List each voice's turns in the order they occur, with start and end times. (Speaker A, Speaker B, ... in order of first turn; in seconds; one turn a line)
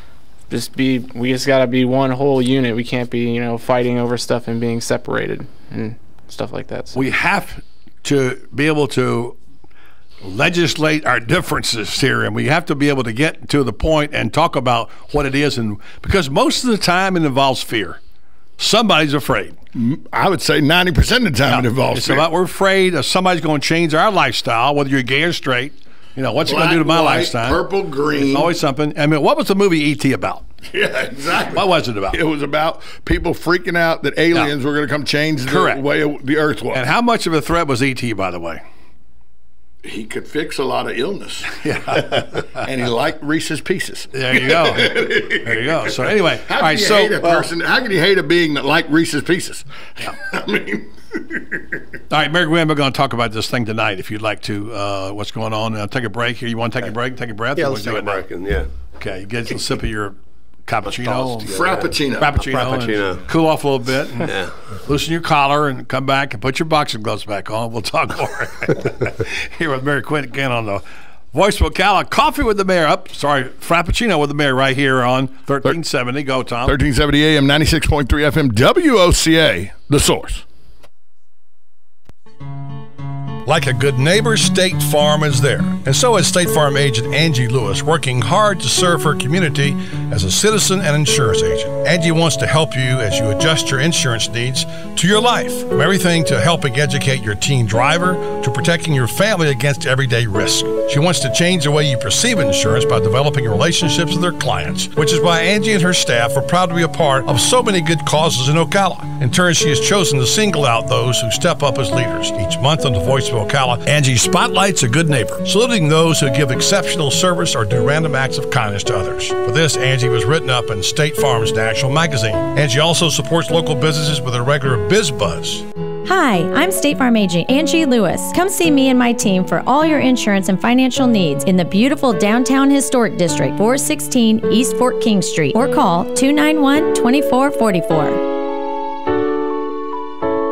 Speaker A: 0.5-7.0
Speaker B: 7.0-9.4
Speaker B: 10.2-18.0
Speaker B: 18.6-19.6
Speaker C: 19.8-22.2
Speaker B: 21.4-30.4
Speaker C: 26.4-28.5
Speaker C: 30.7-36.8
Speaker B: 31.5-32.2
Speaker B: 35.5-35.8
Speaker B: 36.7-38.6
Speaker C: 39.8-41.6
Speaker B: 41.6-42.2
Speaker C: 42.6-51.6
Speaker B: 44.1-47.5
Speaker B: 52.1-58.2
Speaker D: 57.5-58.7
Speaker B: 59.0-60.2
Speaker B: 60.7-64.3
Speaker D: 60.9-63.2
Speaker C: 61.1-62.3
Speaker D: 64.2-64.5
Speaker B: 64.9-76.8
Speaker C: 76.7-80.4
Speaker B: 83.5-125.6
Speaker E: 126.1-138.2